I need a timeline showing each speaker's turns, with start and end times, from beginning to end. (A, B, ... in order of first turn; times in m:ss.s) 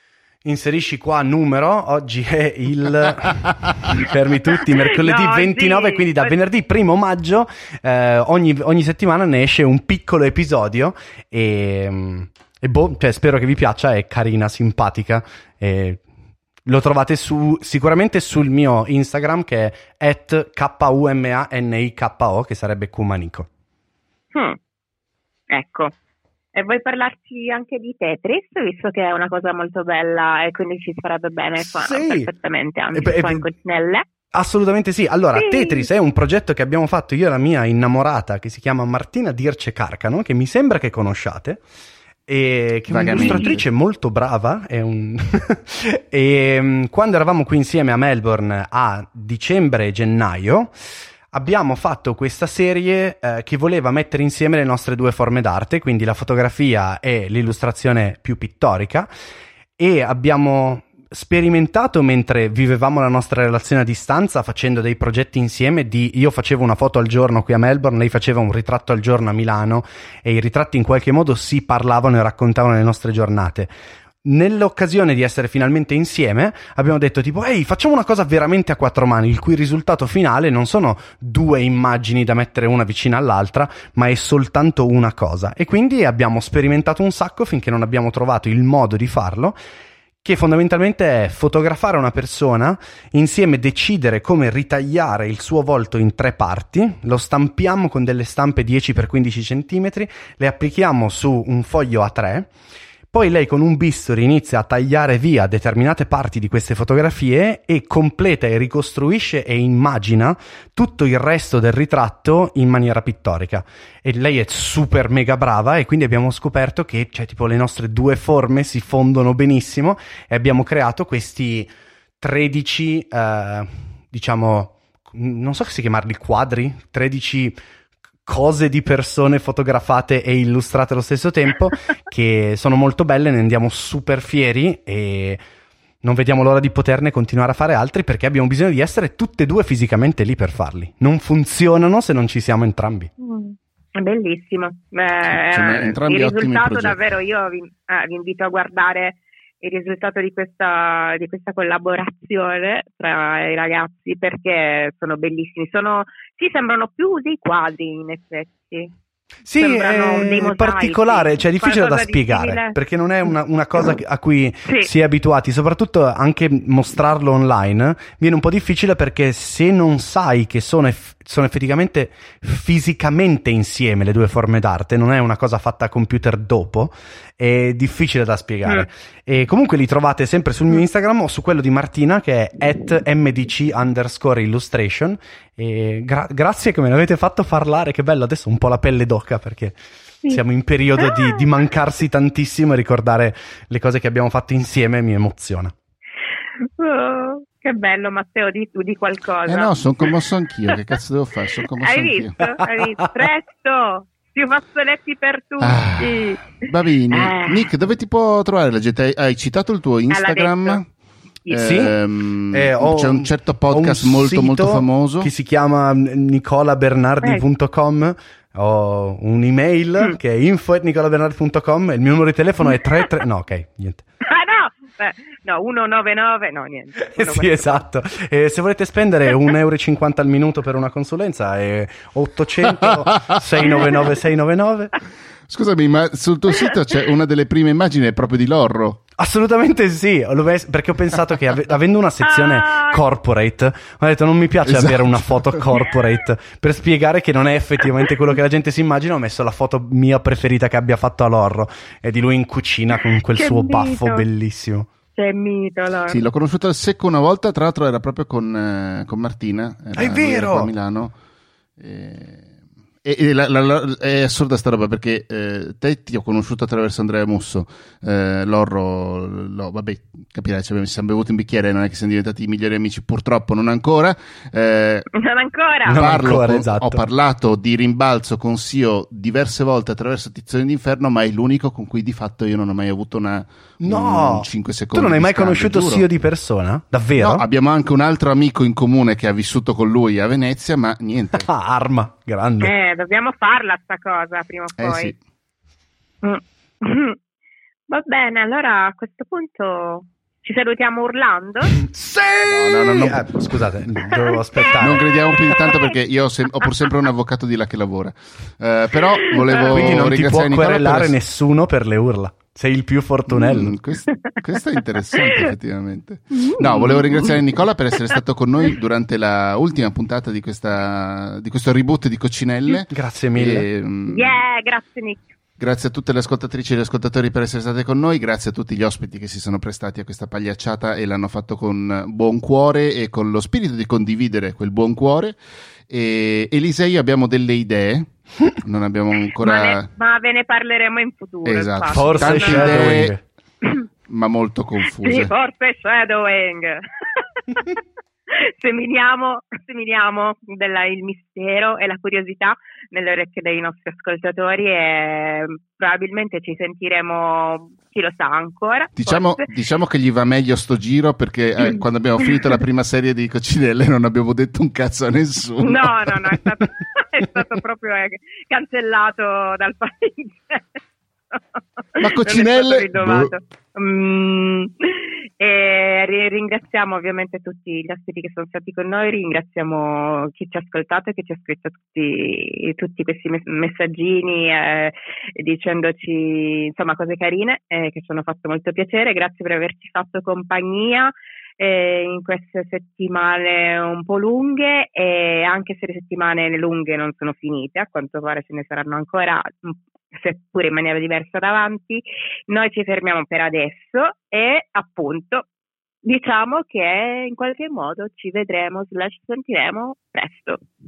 0:00.4-0:16.0 A
0:04.6-0:06.3 B
0:16.7-0:23.5 A
0:25.5-0:25.9 B
0:26.5-0:34.0 B
0:31.6-0:32.3 A
0:32.9-0:33.4 A
0:34.3-0:41.6 A
0:35.4-0:35.9 B
0:42.3-0:50.8 A
0:42.9-0:43.6 C
0:43.1-0:43.6 B
0:51.3-0:59.1 A
0:59.8-1:13.7 A
1:14.2-1:29.6 A
1:30.2-1:42.5 A
1:43.1-2:01.7 A
2:02.2-2:07.6 A
2:08.3-2:15.4 A
2:16.0-2:23.1 A
2:23.2-2:38.9 B
2:25.3-2:27.0 C
2:39.4-3:15.7 A
2:39.6-2:42.8 B
3:11.0-3:11.4 B
3:16.6-3:20.2 B
3:19.5-3:22.4 C
3:21.8-3:26.6 B
3:22.4-3:23.0 A
3:25.6-3:30.9 C
3:27.1-3:27.7 B
3:30.1-3:30.8 B
3:31.5-3:31.8 B
3:31.5-3:35.3 C
3:31.6-3:31.9 A
3:32.5-3:44.0 A
3:42.8-3:43.1 B
3:44.2-3:47.8 B
3:47.0-3:55.0 A
3:52.8-3:53.7 C
3:55.5-3:59.0 C
3:59.2-4:14.9 A
4:02.2-4:03.0 B
4:04.6-4:05.6 C
4:13.1-4:14.2 B
4:15.2-4:16.2 B
4:16.1-4:21.1 C
4:20.0-4:20.7 A
4:21.8-4:22.5 C
4:23.0-4:35.1 C
4:35.1-4:36.0 B
4:35.9-4:37.0 A
4:35.9-4:46.0 C
4:43.8-4:47.4 A
4:47.2-4:51.5 C
4:51.4-4:52.7 A
4:52.6-4:55.1 B
4:54.8-4:55.2 C
4:56.2-4:57.2 B
4:57.9-5:01.8 B
5:01.8-5:05.1 A
5:02.4-5:03.4 C
5:04.1-5:04.8 B
5:04.8-5:11.2 C
5:05.6-5:05.9 B
5:09.3-5:09.8 B
5:09.7-5:13.8 A
5:13.3-5:24.4 C
5:14.1-5:14.4 B
5:16.3-5:17.4 B
5:22.9-5:23.7 A
5:24.1-5:25.3 B
5:25.6-5:39.9 C
5:39.4-5:42.8 B
5:41.4-5:43.2 C
5:41.9-5:43.2 A
5:44.1-5:45.3 C
5:45.0-5:59.4 B
5:59.0-6:06.4 C
6:05.6-6:10.7 B
6:11.3-6:45.5 B
6:12.0-6:13.4 C
6:46.0-6:50.6 B